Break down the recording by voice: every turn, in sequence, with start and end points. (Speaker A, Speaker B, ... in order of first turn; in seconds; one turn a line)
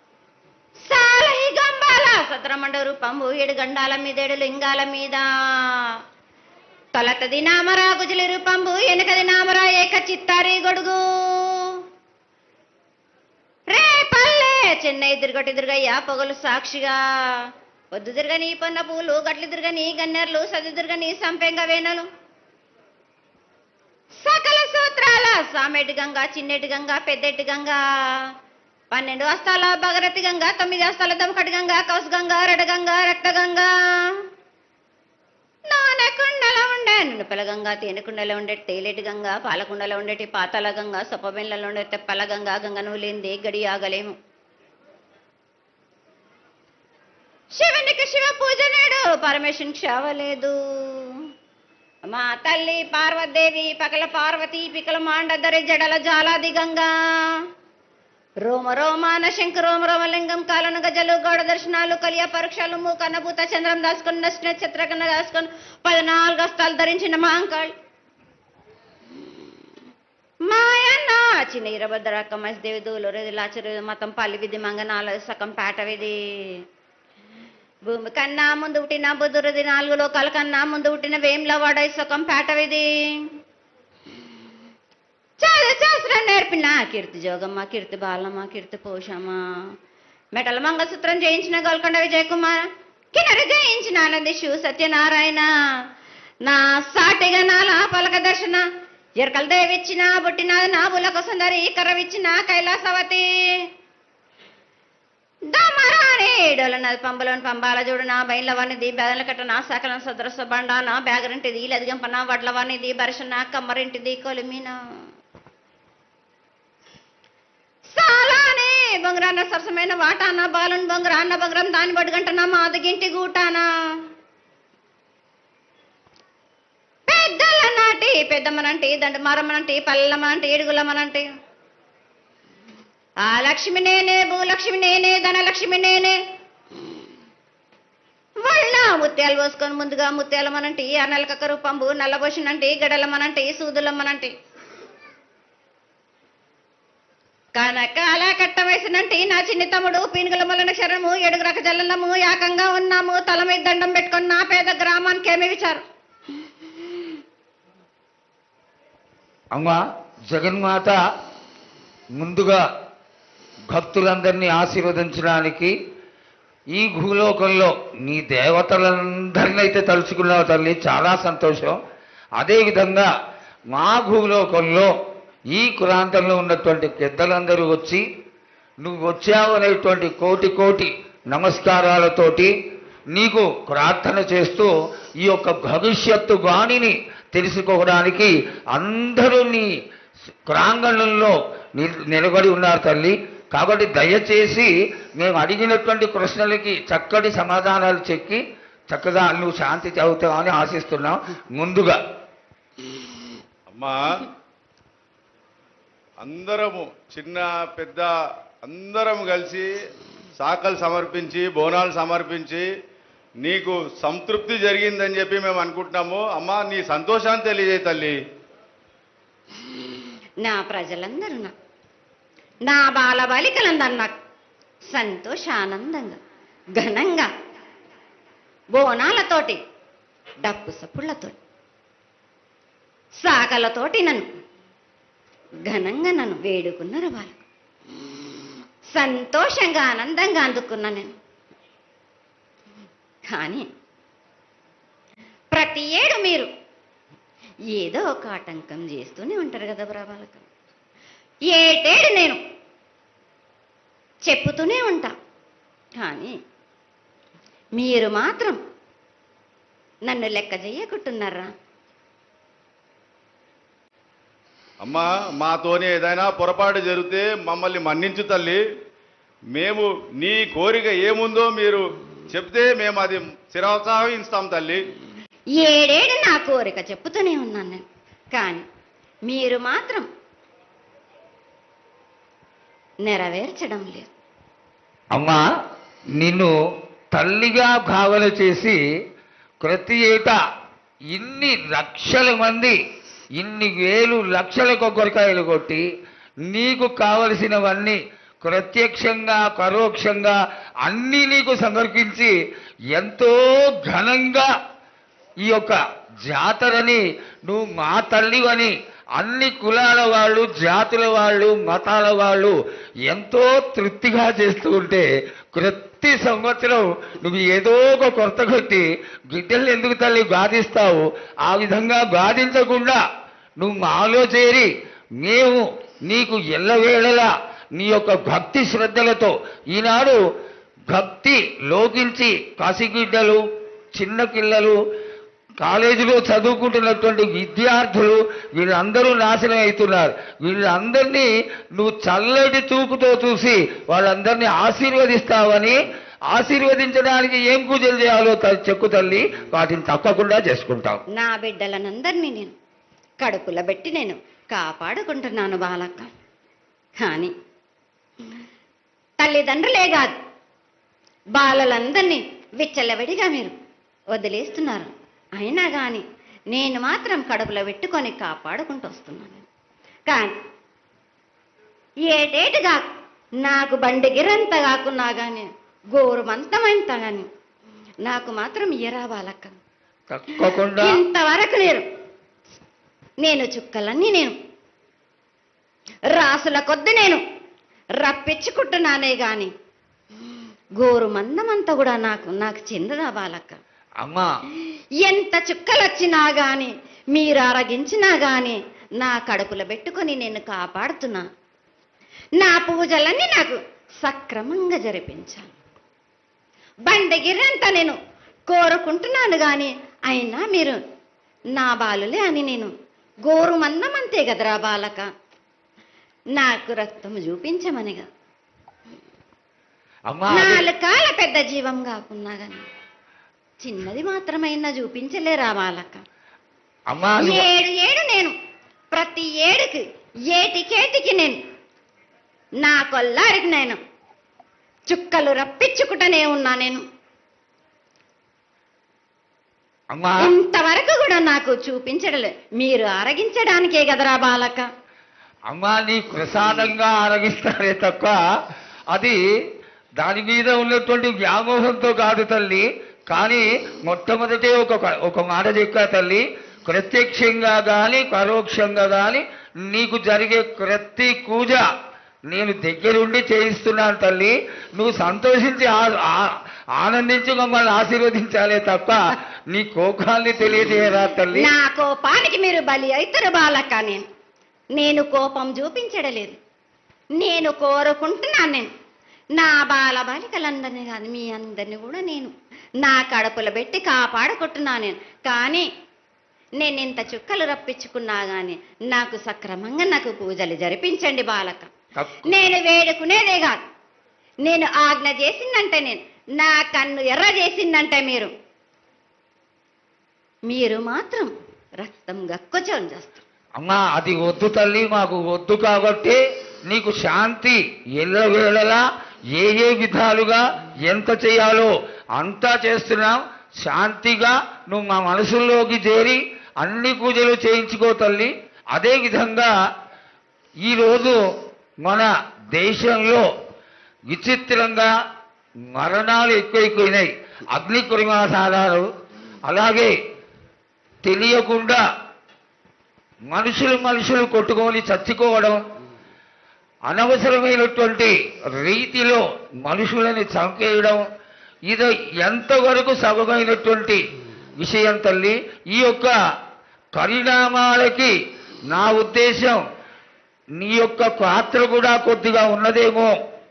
Speaker A: 0.9-5.9
Speaker A: 6.9-11.8
Speaker A: 13.7-22.1
Speaker A: 24.2-28.3
Speaker A: 28.9-34.2
Speaker A: 35.7-44.1
Speaker A: 47.5-51.2
Speaker A: 52.1-57.4
Speaker A: 58.4-67.7
Speaker A: 70.5-76.6
Speaker A: 77.8-83.3
Speaker A: 85.4-89.4
Speaker A: 90.3-95.5
Speaker A: 96.4-98.6
Speaker A: 99.2-103.6
Speaker A: 105.5-114.8
Speaker A: 117.9-123.7
Speaker A: 127.1-131.3
Speaker A: 133.2-136.2
Speaker A: 138.4-144.3
Speaker A: 147.6-155.8
Speaker B: 159.5-161.0
Speaker B: 162.2-162.6
Speaker B: 163.7-165.7
Speaker B: 166.7-171.8
Speaker B: 172.4-173.1
Speaker B: 173.7-174.9
Speaker B: 175.5-178.0
Speaker B: 178.8-182.5
Speaker B: 183.1-184.7
Speaker B: 185.2-189.7
Speaker B: 190.5-202.0
Speaker C: 203.7-204.2
Speaker C: 206.2-208.1
Speaker C: 208.6-209.7
Speaker C: 210.4-212.7
Speaker C: 213.4-218.2
Speaker A: 220.4-221.5
Speaker A: 222.6-224.2
Speaker A: 224.9-226.2
Speaker A: 226.8-227.3
Speaker A: 228.7-229.6
Speaker A: 230.4-231.4
Speaker A: 233.2-234.2
Speaker A: 235.7-237.4
Speaker A: 238.1-241.1
Speaker A: 243.3-243.7
Speaker A: 245.5-246.5
Speaker A: 247.7-250.5
Speaker A: 251.5-252.4
Speaker A: 254.3-255.1
Speaker A: 256.0-256.3
Speaker A: 257.8-258.6
Speaker A: 260.1-261.5
Speaker C: 264.8-268.6
Speaker C: 269.5-274.8
Speaker A: 275.6-278.6
Speaker A: 279.3-280.1
Speaker A: 283.0-284.1
Speaker B: 285.1-285.4
Speaker B: 286.2-286.5
Speaker B: 287.1-288.8
Speaker B: 289.6-290.4
Speaker B: 291.1-292.8
Speaker B: 293.4-295.8
Speaker B: 296.5-302.3
Speaker B: 302.9-304.5
Speaker B: 305.4-312.6
Speaker B: 313.1-323.0
Speaker B: 323.6-324.7
Speaker B: 325.2-330.2
Speaker B: 330.9-333.4
Speaker B: 333.9-334.8
Speaker B: 335.6-345.8
Speaker B: 346.3-351.0
Speaker A: 351.1-352.5
Speaker A: 353.2-356.1
Speaker A: 357.0-357.3
Speaker A: 359.2-360.1
Speaker A: 361.3-363.5
Speaker A: 364.1-369.4
Speaker A: 370.1-370.3
Speaker A: 372.1-372.9
Speaker A: 373.4-377.3
Speaker A: 378.0-379.6
Speaker B: 380.1-381.0
Speaker A: 380.4-381.9
Speaker A: 383.2-384.3
Speaker A: 386.1-387.2
Speaker A: 388.0-389.5
Speaker A: 390.8-393.6
Speaker B: 394.0-394.3
Speaker A: 395.0-401.2
Speaker A: 402.4-405.5
Speaker A: 406.9-410.8
Speaker A: 411.6-412.7
Speaker A: 413.2-415.1
Speaker A: 416.4-418.1
Speaker B: 420.1-420.6
Speaker A: 420.3-422.6
Speaker A: 423.6-426.0
Speaker B: 426.9-427.5
Speaker A: 427.2-428.3
Speaker A: 428.9-431.4
Speaker A: 432.6-433.8
Speaker A: 434.9-436.8
Speaker B: 439.9-440.3
Speaker A: 440.2-444.6
Speaker B: 445.5-448.2
Speaker B: 448.9-449.2
Speaker B: 450.0-461.6
Speaker B: 462.3-471.5
Speaker A: 471.3-474.0
Speaker A: 474.8-476.4
Speaker A: 477.2-478.7
Speaker A: 479.4-482.3
Speaker A: 482.8-485.7
Speaker A: 486.6-491.7
Speaker B: 491.9-492.3
Speaker A: 492.2-493.6
Speaker A: 494.4-498.3
Speaker A: 500.5-503.2
Speaker B: 503.6-508.8
Speaker B: 509.3-519.5
Speaker B: 520.6-521.2
Speaker B: 521.8-523.2
Speaker B: 524.1-524.9
Speaker B: 525.7-528.9
Speaker B: 529.4-529.9
Speaker B: 531.0-531.8
Speaker B: 533.3-535.6
Speaker B: 536.9-541.0
Speaker B: 541.7-544.0
Speaker B: 544.6-546.1
Speaker B: 546.9-548.1
Speaker B: 548.7-549.6
Speaker B: 550.6-553.1